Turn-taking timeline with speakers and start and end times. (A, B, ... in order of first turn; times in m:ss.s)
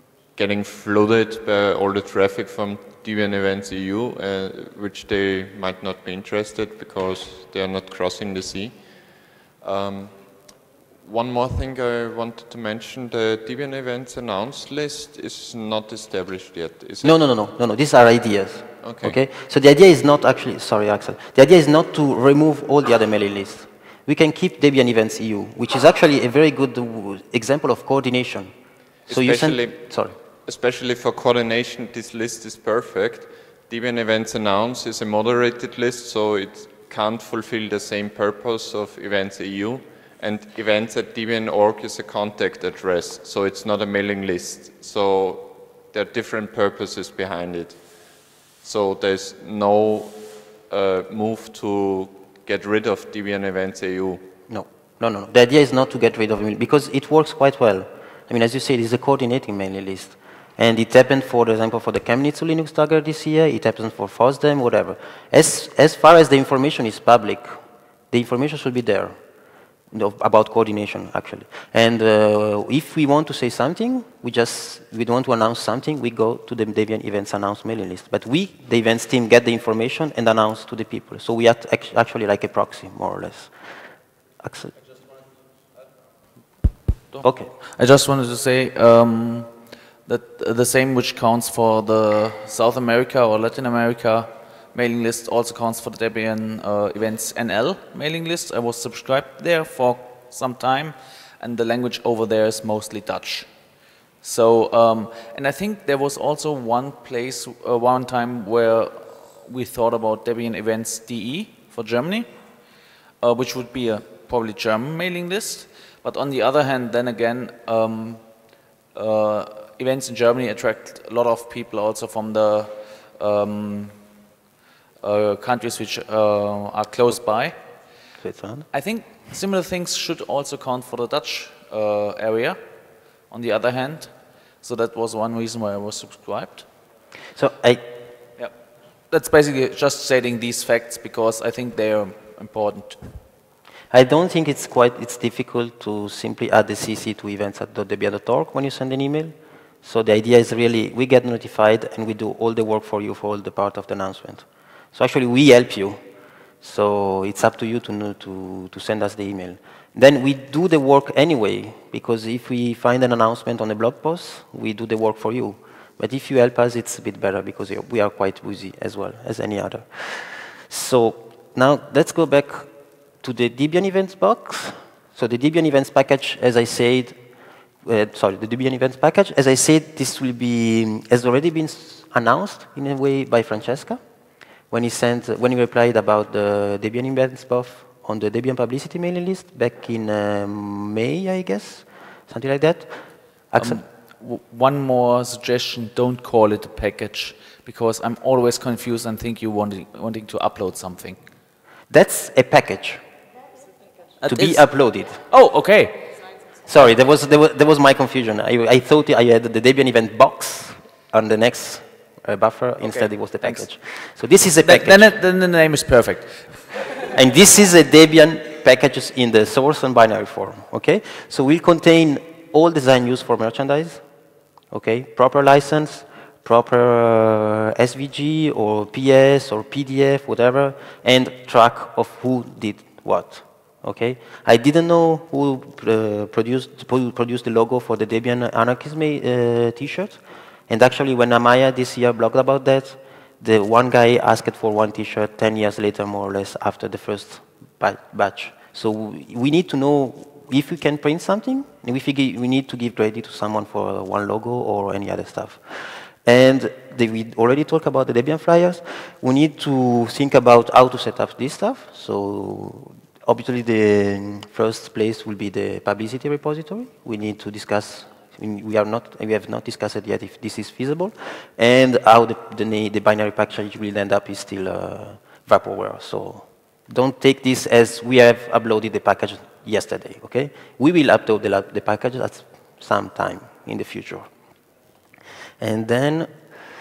0:00.3-0:17.2 A
0:17.0-0:28.5 B
0:18.8-0:19.2 A
0:29.1-0:47.8 A
0:29.1-0:30.1 B
0:48.6-0:54.3 A
0:54.5-1:07.6 B
1:08.1-1:09.2 B
1:09.9-1:23.5 B
1:24.4-1:24.7 B
1:27.1-1:29.5 C
1:27.2-1:27.5 B
1:30.0-1:43.5 C
1:44.2-1:52.3 C
1:53.2-1:58.2 C
1:58.9-2:04.0 C
2:05.0-2:07.6 C
2:08.2-2:08.6 B
2:08.7-2:12.6 C
2:13.3-2:16.7 C
2:17.4-2:17.8 B
2:19.1-2:23.1 C
2:23.9-2:36.0 B
2:36.6-2:52.7 B
2:53.2-2:57.2 B
2:57.8-3:04.0 B
3:04.7-3:13.0 B
3:13.5-3:13.8 B
3:13.6-3:21.2 C
3:21.9-3:23.0 B
3:24.2-3:24.7 C
3:24.2-3:25.2 B
3:25.3-3:26.2 C
3:26.6-3:35.1 B
3:32.8-3:33.7 C
3:34.6-3:36.8 C
3:37.1-3:44.0 B
3:44.7-4:15.6 B
4:16.2-4:44.3 B
4:45.6-4:46.3 B